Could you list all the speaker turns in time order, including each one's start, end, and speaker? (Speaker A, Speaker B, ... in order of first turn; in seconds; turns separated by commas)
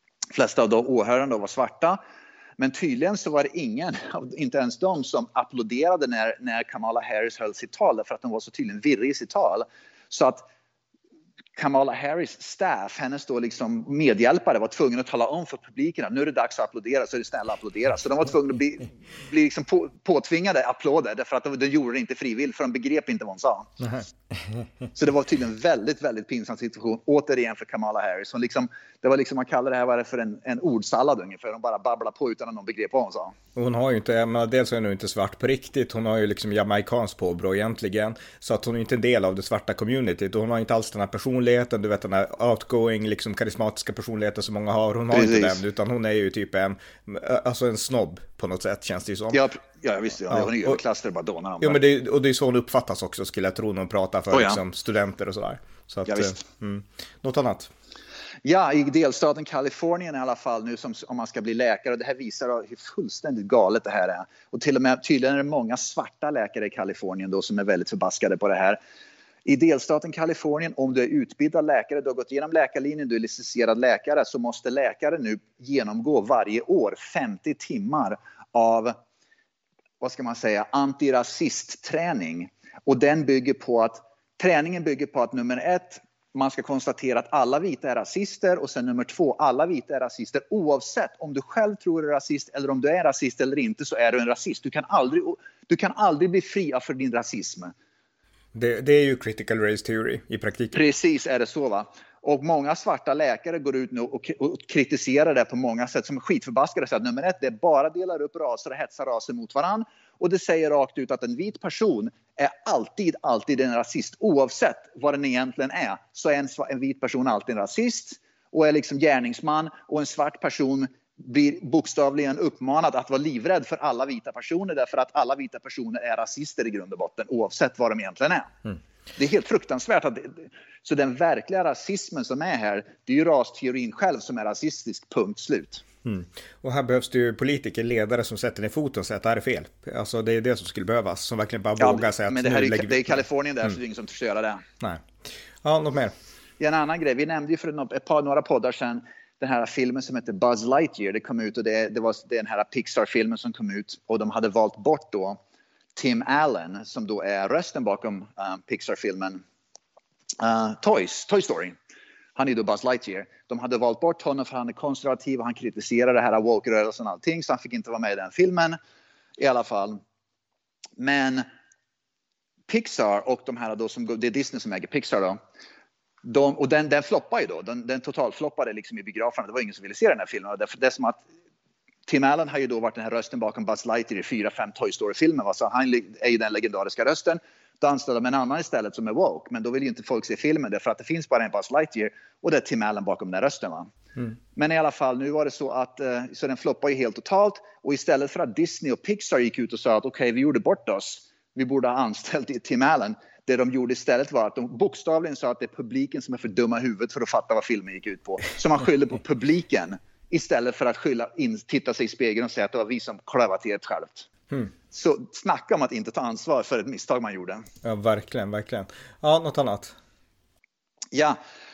Speaker A: 0.3-2.0, Speaker A: 2.6-10.4, Speaker A: 11.6-23.7, Speaker A: 24.9-33.3, Speaker B: 33.5-49.4, Speaker A: 45.1-45.6, Speaker A: 49.3-51.8, Speaker B: 50.3-50.7, Speaker B: 51.6-57.7, Speaker A: 54.3-54.6, Speaker A: 56.1-56.4, Speaker A: 58.4-68.8, Speaker A: 69.4-78.9, Speaker A: 80.0-97.7, Speaker B: 98.5-100.8, Speaker A: 100.7-128.5, Speaker A: 129.2-135.8, Speaker B: 136.0-143.2, Speaker A: 141.8-144.6, Speaker B: 144.8-145.1, Speaker B: 145.6-146.1, Speaker A: 146.6-155.4, Speaker A: 155.9-159.4, Speaker A: 160.4-161.7, Speaker A: 162.3-168.8, Speaker A: 169.4-170.0, Speaker A: 171.0-171.5, Speaker A: 172.7-175.4, Speaker A: 176.2-181.2, Speaker A: 182.1-193.9, Speaker A: 194.5-214.3, Speaker A: 214.9-217.6, Speaker B: 217.8-219.9, Speaker A: 221.1-221.4